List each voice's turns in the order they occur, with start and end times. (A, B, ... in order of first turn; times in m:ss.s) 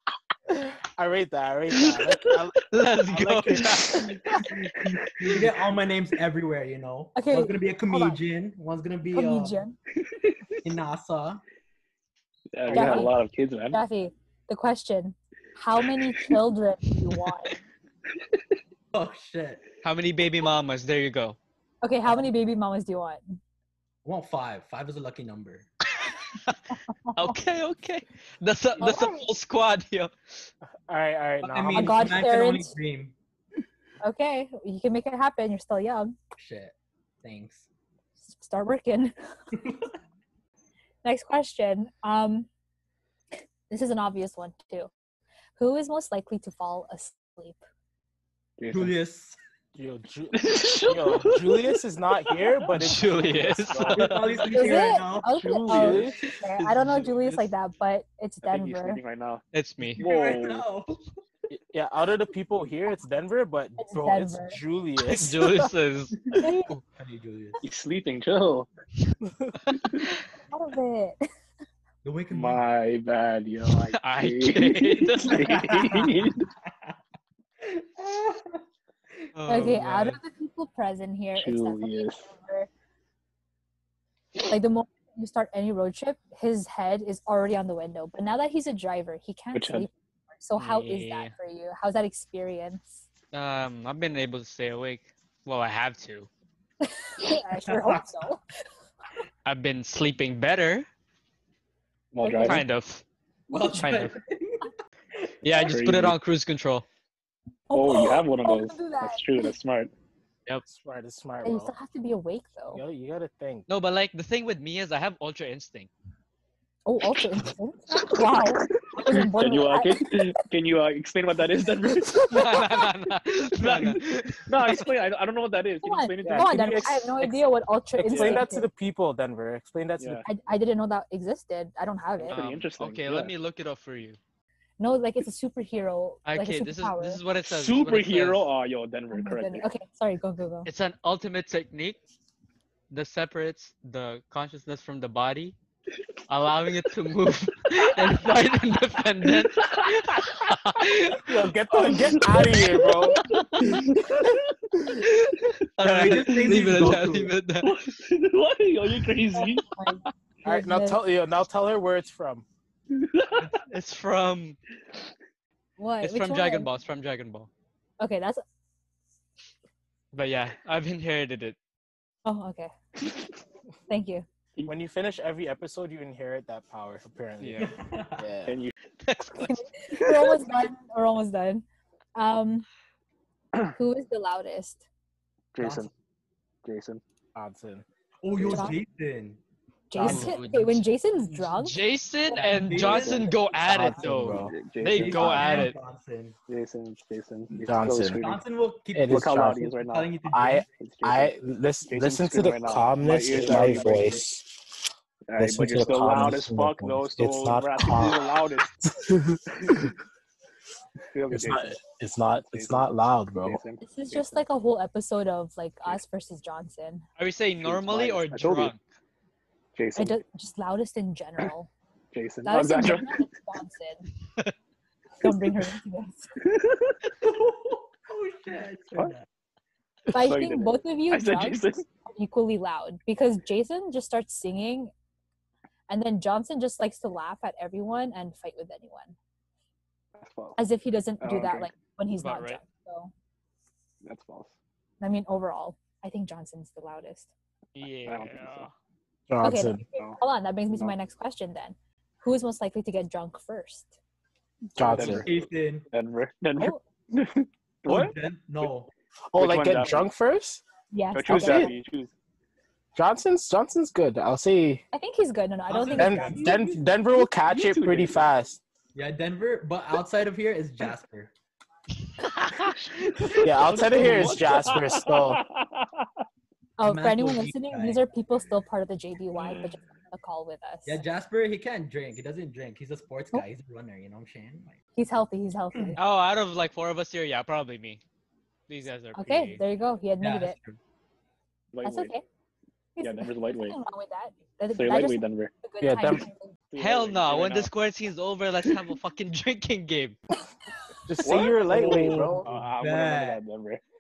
0:01.0-0:02.5 A
0:02.7-0:04.2 B
0:03.1-0:03.8 A
0:04.3-0:09.6 C
0:04.8-0:05.4 D
0:07.2-0:08.2 E
0:09.1-0:09.8 E
0:10.1-0:10.6 D
0:10.6-0:11.4 C
0:12.5-0:13.8 D
0:12.7-0:13.1 A
0:12.7-0:13.1 E
0:13.7-0:17.6 E
0:18.9-0:19.6 C
0:19.8-0:21.4 B
0:21.8-0:23.4 E
0:24.0-0:25.7 C
0:27.1-0:27.4 E
0:27.1-0:30.1 B
0:28.8-0:29.3 E
0:30.9-0:32.2 A
0:31.4-0:33.2 C
0:31.7-0:32.7 E
0:34.0-0:36.2 E
0:36.4-0:37.7 C
0:38.2-0:39.2 E
0:39.6-0:39.9 C
0:41.0-0:42.5 E
0:43.7-0:44.9 E
0:45.6-0:47.6 E
0:48.6-0:48.9 D
0:48.7-0:49.4 C
0:49.8-0:54.0 A
0:50.3-0:51.8 D
0:52.7-0:54.4 D
0:52.8-0:54.4 B
0:53.7-0:56.3 C
0:54.5-0:59.0 E
0:55.3-0:56.2 D
0:55.7-0:56.2 A
0:56.8-0:57.0 B
0:58.4-0:59.4 D
0:59.5-1:00.0 B
1:00.0-1:00.7 D
1:00.0-1:01.1 C
1:01.5-1:05.7 A
1:03.8-1:04.6 E
1:05.0-1:06.2 B
1:06.4-1:06.8 E
1:06.9-1:07.6 C
1:07.6-1:08.7 D
1:10.5-1:11.2 E
1:12.0-1:12.7 C
1:12.3-1:16.5 D
1:13.6-1:15.5 B
1:15.3-1:17.0 C
1:17.6-1:18.6 C
1:19.4-1:20.2 B
1:19.5-1:22.7 E
1:21.4-1:22.3 D
1:24.4-1:33.0 E
1:29.5-1:29.9 D
1:30.6-1:31.3 B
1:33.3-1:36.3 B
1:36.8-1:38.4 E
1:37.7-1:38.0 C
1:39.4-1:40.9 B
1:42.1-1:42.6 D
1:42.2-1:42.6 E
1:42.3-1:43.0 B
1:43.5-1:45.3 C
1:43.7-1:44.2 B
1:45.4-1:46.9 B
1:45.5-1:46.2 D
1:47.7-1:49.5 E
1:47.7-1:49.9 D
1:50.7-1:51.7 A
1:51.4-1:52.8 E
1:52.7-1:53.7 A
1:53.7-1:55.9 B
1:56.9-2:00.3 E
1:58.0-2:02.5 D
2:02.3-2:04.9 B
2:03.6-2:06.9 D
2:05.8-2:08.7 E
2:06.2-2:07.3 A
2:08.0-2:10.2 A
2:08.1-2:08.4 D
2:10.0-2:10.3 D
2:10.3-2:12.4 E
2:12.2-2:13.3 D
2:12.3-2:14.2 B
2:14.8-2:17.2 E
2:16.3-2:18.5 B
2:17.5-2:19.7 D
2:19.1-2:20.7 E
2:20.7-2:22.0 B
2:22.9-2:25.6 B
2:26.3-2:31.4 B
2:29.3-2:30.5 D
2:31.3-2:33.2 A
2:31.7-2:34.4 D
2:33.3-2:33.6 B
2:34.9-2:37.7 B
2:35.8-2:37.3 C
2:36.1-2:37.0 D
2:37.6-2:39.7 D
2:39.3-2:41.0 E
2:40.4-2:42.5 A
2:42.9-2:43.5 D
2:43.5-2:44.6 B
2:45.8-2:46.7 E
2:46.0-2:47.5 B
2:48.0-2:48.4 E
2:50.1-2:51.6 B
2:52.2-2:52.7 E
2:53.9-2:54.2 E
2:54.7-2:58.6 A
2:57.4-2:57.7 B
2:57.6-2:58.3 C
2:58.4-2:58.7 D
2:59.0-2:59.6 B
2:59.4-3:01.6 E
3:02.2-3:02.7 E
3:03.7-3:04.8 E
3:05.6-3:05.9 D
3:05.6-3:05.9 C
3:06.6-3:07.0 D
3:07.4-3:07.8 A
3:08.2-3:09.4 C
3:08.5-3:08.8 E
3:09.9-3:11.8 E
3:09.9-3:10.4 A
3:10.0-3:10.9 C
3:11.6-3:15.8 B
3:12.3-3:12.6 E
3:12.3-3:13.4 C
3:12.9-3:13.3 D
3:13.6-3:14.6 A
3:14.1-3:14.3 C
3:14.3-3:15.5 D
3:14.9-3:16.4 C
3:15.1-3:15.7 A
3:16.5-3:18.4 D
3:17.5-3:18.2 A
3:18.2-3:20.7 C
3:18.9-3:19.7 A
3:19.1-3:20.1 D
3:20.2-3:24.5 A
3:20.7-3:21.4 D
3:21.9-3:24.3 D
3:23.5-3:24.0 C
3:25.3-3:28.7 D
3:25.4-3:28.3 A
3:28.9-3:29.9 A
3:31.1-3:31.8 D
3:31.3-3:33.6 A
3:32.5-3:34.4 D
3:33.8-3:37.0 E
3:37.2-3:38.8 B
3:37.6-3:38.7 D
3:39.8-3:40.2 D
3:40.0-3:41.7 E
3:42.1-3:43.3 D
3:42.4-3:44.1 E
3:45.2-3:46.3 E
3:46.4-3:47.0 D
3:47.2-3:49.3 C
3:50.1-3:51.9 D
3:50.1-3:54.9 E
3:55.9-3:59.2 E
4:00.2-4:00.6 D
4:00.6-4:03.1 E
4:01.2-4:01.7 D
4:02.2-4:02.6 B
4:04.0-4:04.5 D
4:05.0-4:07.3 E
4:07.8-4:08.7 B
4:08.1-4:08.7 D
4:09.3-4:09.8 A
4:09.4-4:13.9 E
4:14.8-4:15.2 A
4:14.8-4:18.1 D
4:14.9-4:15.9 C
4:17.9-4:18.9 C
4:19.3-4:20.6 A
4:19.4-4:20.1 D
4:20.9-4:21.7 E
4:21.1-4:22.1 D
4:21.3-4:21.7 A
4:23.0-4:24.8 A
4:24.9-4:26.6 E
4:25.7-4:26.8 C
4:26.0-4:28.6 A
4:27.4-4:28.3 D
4:29.0-4:31.3 C
4:32.4-4:33.4 B
4:32.5-4:36.1 D
4:33.4-4:35.4 A
4:33.8-4:34.8 C
4:36.8-4:41.0 E
4:36.8-4:38.4 C
4:39.4-4:39.8 D
4:40.8-4:44.8 C
4:45.0-4:46.0 E
4:46.0-4:48.0 B
4:48.7-4:49.6 B
4:49.2-4:50.6 E
4:50.2-4:50.8 C
4:51.7-4:52.1 D
4:51.8-4:52.2 E
4:53.0-4:56.5 E
4:53.0-4:53.8 D
4:54.7-4:55.5 D
4:55.8-4:56.3 A
4:56.7-4:57.7 D
4:56.8-5:00.2 B
5:01.1-5:02.5 A
5:01.2-5:03.8 D
5:01.6-5:03.4 C